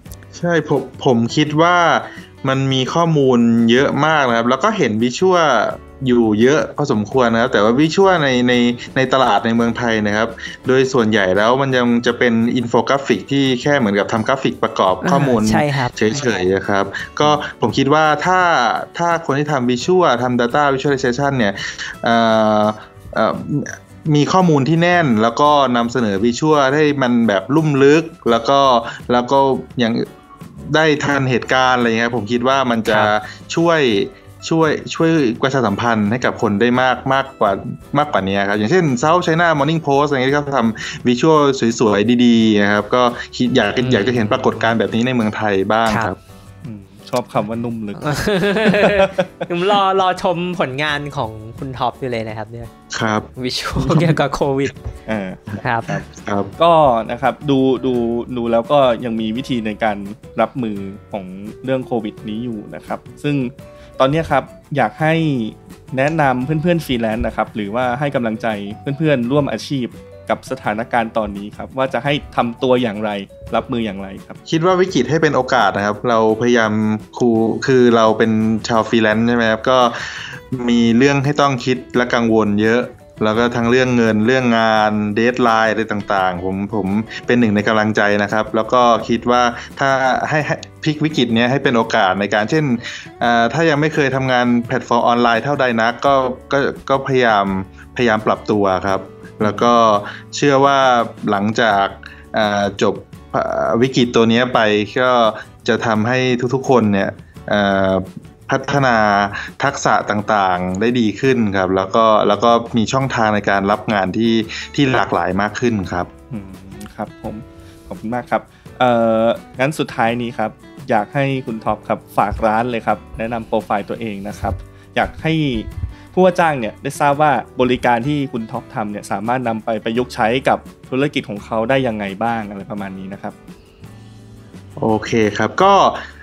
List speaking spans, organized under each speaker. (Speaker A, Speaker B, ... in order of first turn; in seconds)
Speaker A: 0.3-30.1, 30.6-46.2, 52.9-53.3, 53.8-54.1, 56.0-56.5, 74.5-116.1, 134.8-136.0
Speaker B: 15.0-15.9, 32.9-33.1, 43.8-44.3, 45.9-46.1, 48.0-52.7, 53.4-54.8, 55.6-56.0
Speaker C: 46.6-49.5, 55.1-56.0, 56.6-74.4, 99.4-99.7, 116.3-133.3